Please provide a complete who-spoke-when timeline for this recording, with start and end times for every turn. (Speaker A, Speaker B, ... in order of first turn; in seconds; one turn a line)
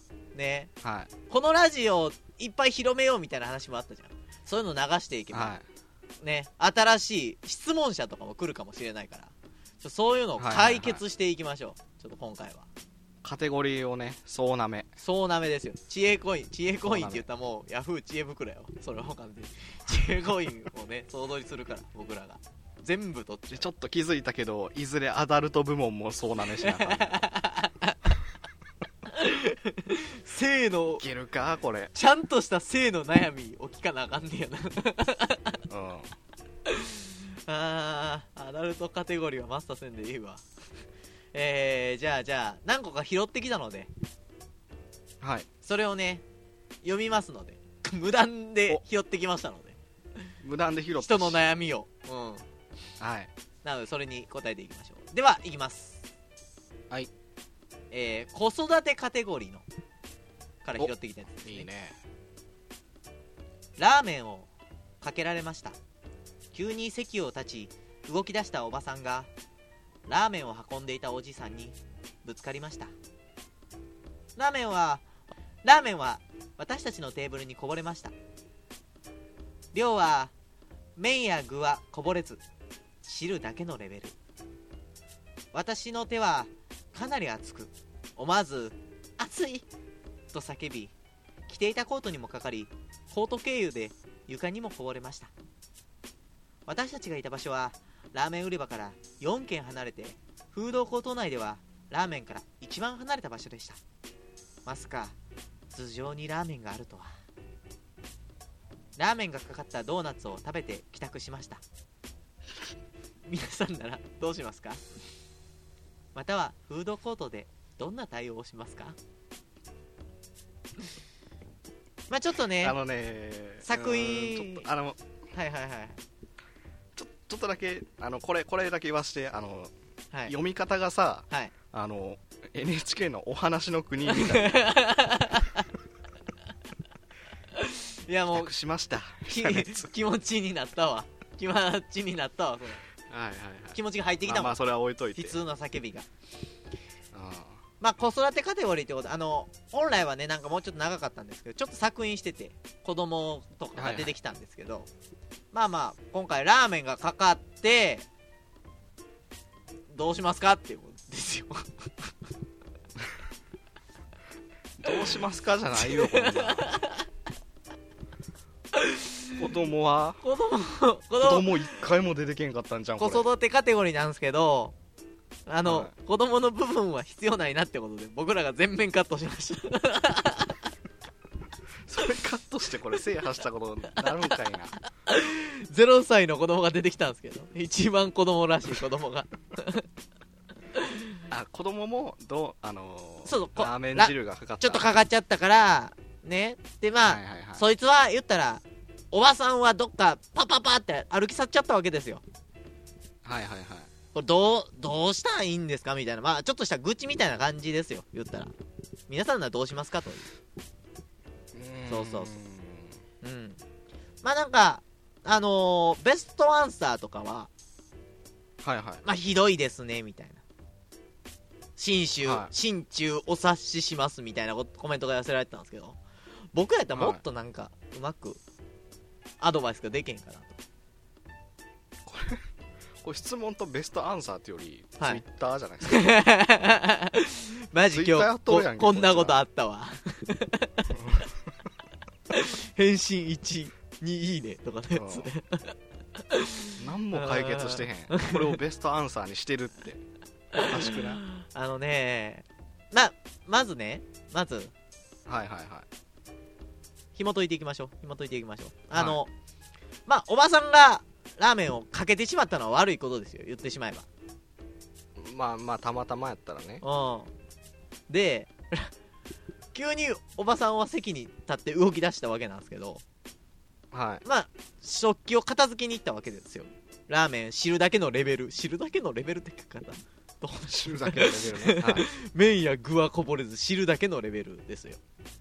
Speaker A: 0.3-0.7
Speaker B: 0.8-1.1
Speaker A: 1.3-5.5
Speaker B: 5.3-5.7
Speaker A: 6.2-12.7
Speaker B: 10.4-11.0
Speaker B: 13.2-14.9
Speaker A: 15.0-23.7
Speaker B: 16.8-17.2
Speaker B: 23.5-27.3
Speaker A: 26.5-27.9
Speaker A: 29.1-31.0
Speaker B: 31.0-31.9
Speaker A: 31.9-35.6
Speaker B: 35.7-36.1
Speaker A: 36.7-40.4
Speaker A: 41.3-43.9
Speaker B: 45.2-45.5
Speaker A: 45.6-46.2
Speaker A: 46.8-49.8
Speaker B: 50.4-51.4
Speaker A: 51.0-52.5
Speaker B: 53.0-53.3
Speaker A: 53.6-56.1
Speaker A: 57.9-59.6
Speaker A: 60.6-61.7
Speaker B: 61.4-62.0
Speaker A: 63.8-64.5
Speaker A: 65.0-65.8
Speaker A: 66.5-69.3
Speaker A: 70.1-72.9
Speaker A: 74.4-75.1
Speaker A: 75.6-78.1
Speaker A: 79.7-80.3
Speaker A: 81.0-82.4
Speaker A: 83.0-84.2
Speaker A: 85.5-89.7
Speaker A: 90.3-90.9
Speaker A: 91.5-95.3
Speaker A: 96.7-103.8
Speaker A: 104.7-105.2
Speaker A: 105.7-107.1
Speaker A: 109.0-111.6
Speaker A: 113.3-114.8
Speaker A: 116.2-119.0
Speaker A: 122.1-122.8
Speaker B: 122.6-125.0
Speaker A: 123.6-124.7
Speaker A: 125.3-126.0
Speaker B: 127.0-129.7
Speaker B: 130.3-134.7
Speaker A: 134.1-135.7
Speaker A: 137.5-138.5
Speaker B: 138.3-139.9
Speaker A: 139.3-142.8
Speaker B: 143.1-145.4
Speaker A: 143.7-144.6
Speaker A: 145.2-146.1
Speaker B: 147.1-147.6
Speaker A: 147.8-154.9
Speaker B: 153.8-154.1
Speaker A: 155.5-158.1
Speaker A: 159.9-162.1
Speaker B: 164.8-166.8
Speaker A: 165.8-167.1
Speaker A: 168.7-169.3
Speaker B: 169.4-170.2
Speaker A: 170.2-171.7
Speaker B: 171.2-173.3
Speaker A: 173.0-174.8
Speaker A: 175.5-180.6
Speaker B: 175.6-175.9
Speaker B: 181.9-184.8
Speaker A: 185.1-189.9
Speaker A: 190.8-191.0
Speaker B: 191.3-195.0
Speaker A: 193.3-202.2
Speaker B: 197.0-197.7
Speaker B: 203.2-203.9
Speaker A: 204.1-208.5
Speaker A: 209.1-210.3
Speaker B: 211.5-213.0
Speaker A: 211.9-212.3
Speaker A: 213.2-213.6
Speaker A: 214.2-217.5
Speaker B: 218.6-219.0
Speaker A: 219.0-220.4
Speaker A: 221.8-226.0
Speaker B: 222.2-222.5
Speaker A: 226.5-228.4
Speaker B: 226.9-227.2
Speaker A: 229.4-230.6
Speaker B: 232.1-232.4
Speaker B: 233.0-236.1
Speaker A: 235.9-240.9
Speaker B: 237.9-239.4
Speaker B: 240.9-241.5
Speaker A: 242.3-248.6
Speaker B: 244.9-245.3
Speaker B: 246.8-250.0
Speaker A: 250.6-254.7
Speaker B: 250.6-251.2
Speaker B: 255.3-255.9
Speaker A: 257.2-259.3
Speaker B: 258.9-259.2
Speaker A: 260.1-264.1
Speaker B: 265.2-266.8
Speaker A: 266.8-267.3
Speaker A: 268.1-268.9
Speaker A: 269.7-273.0
Speaker B: 273.9-274.2
Speaker A: 274.2-285.0
Speaker B: 280.6-282.1